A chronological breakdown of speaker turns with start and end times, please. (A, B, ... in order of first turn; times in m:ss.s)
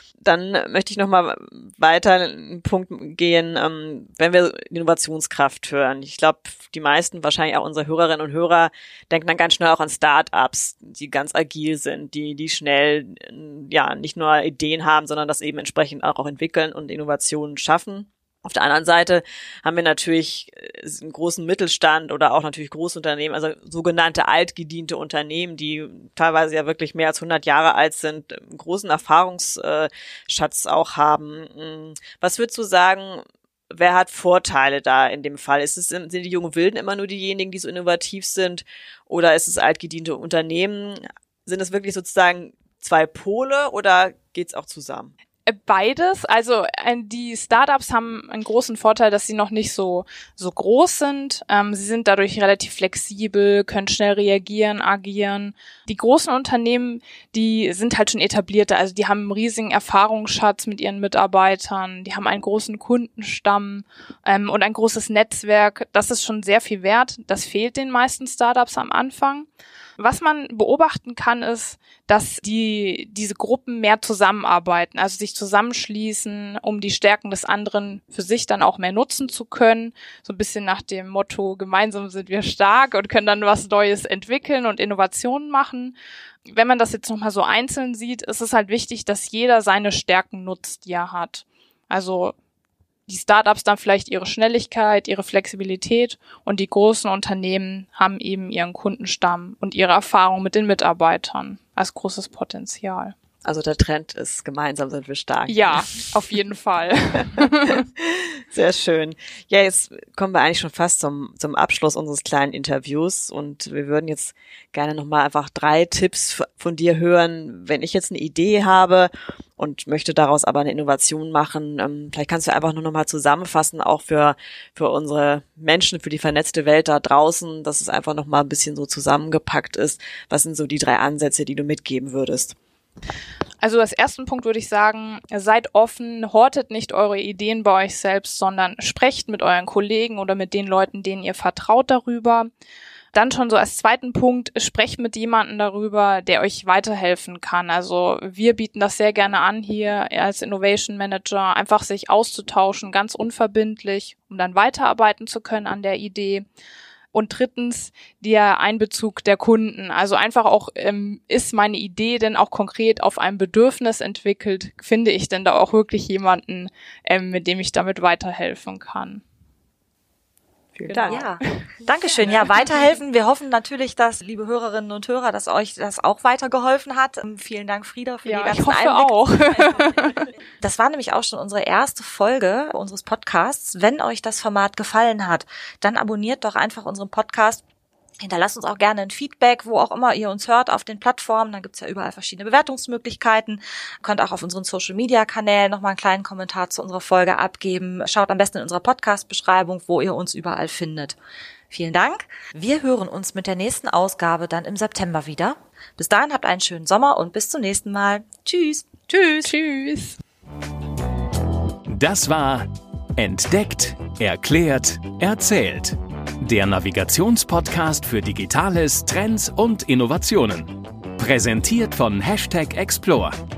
0:00.2-0:45.1 A
0:45.5-1:32.4 B
1:33.1-1:43.2 B
1:43.4-1:45.8 A
1:45.5-1:47.8 B
1:48.5-2:12.6 A
2:13.6-2:22.5 B
2:23.1-2:36.5 B
2:37.1-2:49.2 B
2:50.8-2:51.3 A
2:50.9-2:51.6 B
2:51.1-2:59.1 C
2:52.2-2:52.6 B
2:58.2-3:00.3 B
3:00.6-3:07.6 C
3:08.2-3:21.2 C
3:21.7-3:29.5 C
3:29.2-3:30.2 B
3:32.0-3:32.7 D
3:33.2-3:43.3 D